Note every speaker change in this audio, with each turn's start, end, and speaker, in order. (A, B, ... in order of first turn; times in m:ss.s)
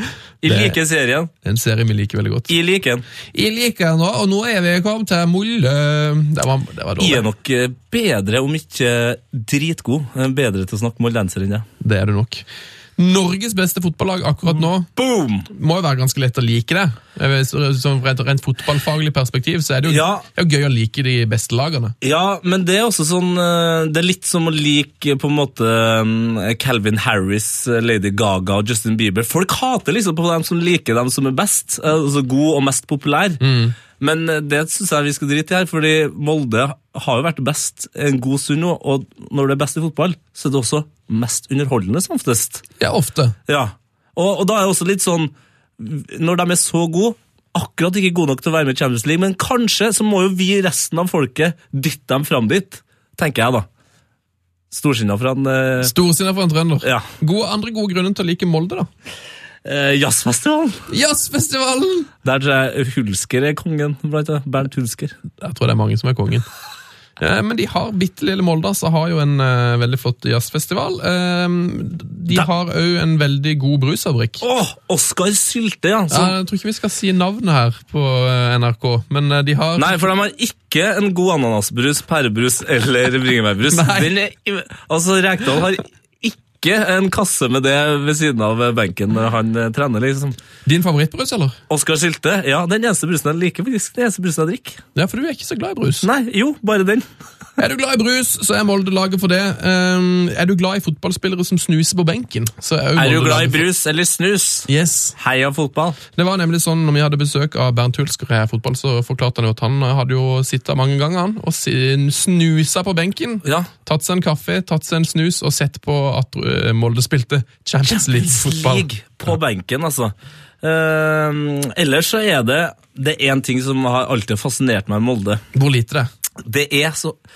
0:00.4-0:01.3 A
0:00.4-0:00.8 B
0:01.4-0:02.5 B
0:02.5-0:03.0 A
0:03.3-0:07.2 B
0:07.0-0:11.7 A
0:11.8-0:12.4 B
0:13.0-0:14.9 B
0:14.5-0:15.5 A
0:15.5-0:22.0 B
0:19.9-0:20.3 A
0:22.0-0:33.4 A
0:33.4-0:33.8 B
0:34.0-0:42.6 A
0:42.8-0:43.4 B
0:43.5-0:53.7 A
0:54.7-0:55.9 A
0:55.8-0:58.9 B
0:59.6-1:00.8 A
1:00.9-1:02.1 B
1:02.2-1:05.2 A
1:05.4-1:06.5 B
1:07.2-1:14.4 B
1:14.4-1:16.4 A
1:16.1-1:20.0 B
1:19.8-1:30.4 A
1:23.7-1:24.1 B
1:30.7-1:31.6 B
1:31.7-1:34.8 A
1:35.0-1:36.1 B
1:36.0-1:37.1 A
1:37.6-1:43.6 B
1:43.0-1:46.0 A
1:44.7-1:45.2 B
1:46.1-1:58.9 B
1:53.4-1:53.7 A
1:57.9-2:05.4 A
2:05.5-2:06.1 B
2:06.4-2:07.2 A